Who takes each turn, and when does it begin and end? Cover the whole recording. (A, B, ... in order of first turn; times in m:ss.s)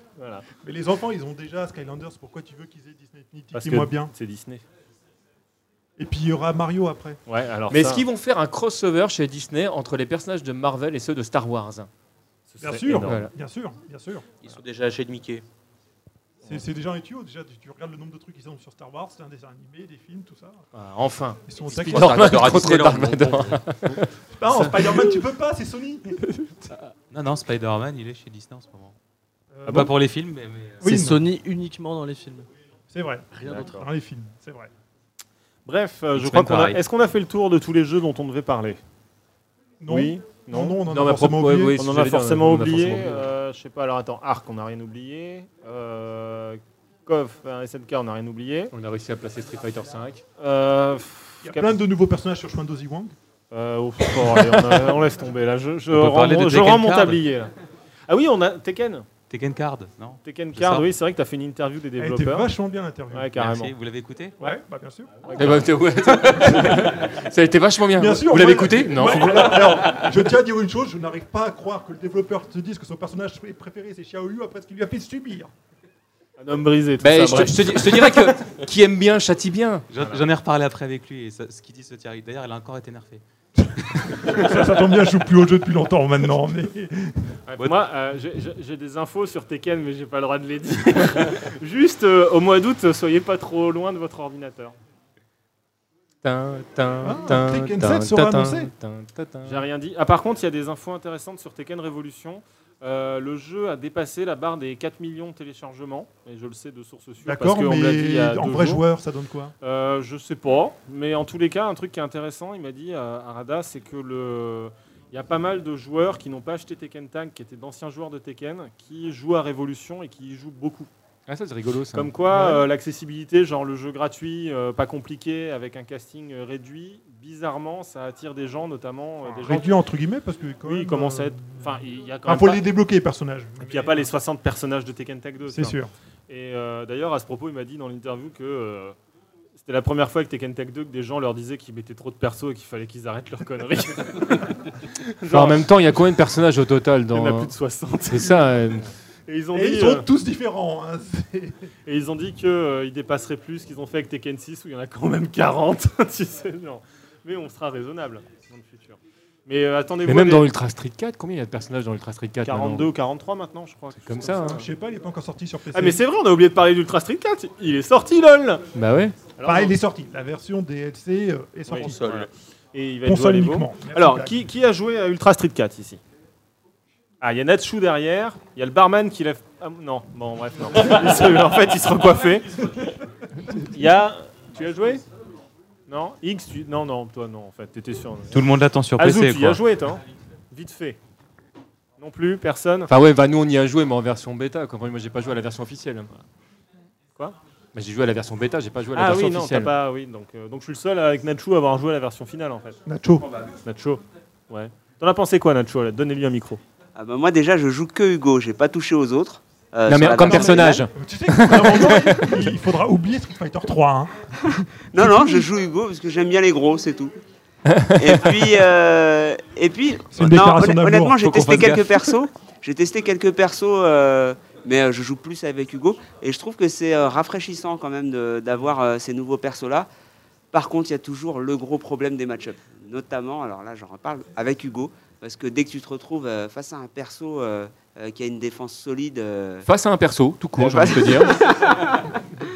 0:00.2-0:00.5 A
0:00.6-0:04.1 B
0:03.6-0:04.6 A
0:06.0-0:07.2 B
0:07.3-0:08.0 A
0:07.7-0:11.9 C
0:12.5-0:13.3 A
0:12.6-0:14.3 B
0:14.4-0:15.4 D
0:16.4-0:20.6 B
0:20.8-0:24.1 C
0:21.5-0:22.6 B
0:21.6-0:23.8 D
0:24.4-0:26.2 B
0:27.1-0:29.0 E
0:29.5-0:29.9 B
0:29.7-0:30.9 E
0:30.8-0:31.2 B
0:30.8-0:32.5 F
0:32.9-0:34.7 B
0:33.3-0:33.8 F
0:35.7-0:38.8 A
0:36.2-0:36.8 E
0:39.8-0:41.8 B
0:39.9-0:40.8 A
0:40.9-0:43.3 C
0:41.8-0:48.7 A
0:48.7-0:50.2 C
0:50.4-0:51.8 A
0:51.4-0:53.2 B
0:53.5-0:57.5 A
0:55.9-0:57.2 E
0:58.1-0:59.1 A
0:59.3-1:00.9 E
1:00.2-1:02.5 A
1:02.0-1:03.3 B
1:03.1-1:03.7 A
1:03.4-1:04.4 E
1:04.4-1:05.1 B
1:05.3-1:05.6 E
1:05.3-1:05.7 A
1:05.4-1:10.0 C
1:08.0-1:15.5 B
1:16.4-1:18.2 A
1:17.0-1:19.9 C
1:19.9-1:23.2 E
1:20.0-1:20.2 A
1:24.0-1:27.3 B
1:27.5-1:34.8 A
1:36.2-1:39.6 C
1:37.0-1:38.7 B
1:39.4-1:48.8 A
1:47.2-1:49.5 B
1:49.6-2:00.9 A
2:01.3-2:02.1 C
2:01.9-2:09.8 A
2:02.3-2:02.7 B
2:09.2-2:14.1 B
2:10.6-2:12.7 A
2:13.6-2:19.0 A
2:15.5-2:15.9 B
2:19.6-2:25.7 A
2:25.3-2:27.5 C
2:27.1-2:28.5 A
2:28.1-2:28.9 C
2:29.3-2:30.1 A
2:29.5-2:31.7 B
2:31.9-2:40.5 A
2:40.1-2:42.9 C
2:42.4-2:44.7 A
2:44.0-2:44.6 C
2:44.5-2:46.0 B
2:45.7-2:48.6 A
2:48.8-2:49.2 C
2:49.4-2:49.7 A
2:49.4-2:52.1 B
2:51.7-2:56.0 A
2:51.9-2:52.3 D
2:53.0-2:54.4 B
2:57.2-3:02.9 A
3:03.6-3:05.0 A
3:05.9-3:08.4 A
3:08.3-3:09.6 E
3:09.0-3:11.0 A
3:12.0-3:12.9 A
3:12.9-3:16.1 C
3:17.7-3:19.7 C
3:19.0-3:22.8 A
3:22.9-3:23.3 B
3:23.6-3:26.6 A
3:27.0-3:30.9 G
3:29.9-3:32.4 C
3:30.2-3:35.5 B
3:34.9-3:37.2 G
3:37.7-3:38.3 C
3:38.0-3:49.9 G
3:40.1-3:41.7 B
3:41.2-3:42.0 E
3:50.5-3:59.6 G
3:59.6-4:01.4 C
4:00.6-4:02.1 G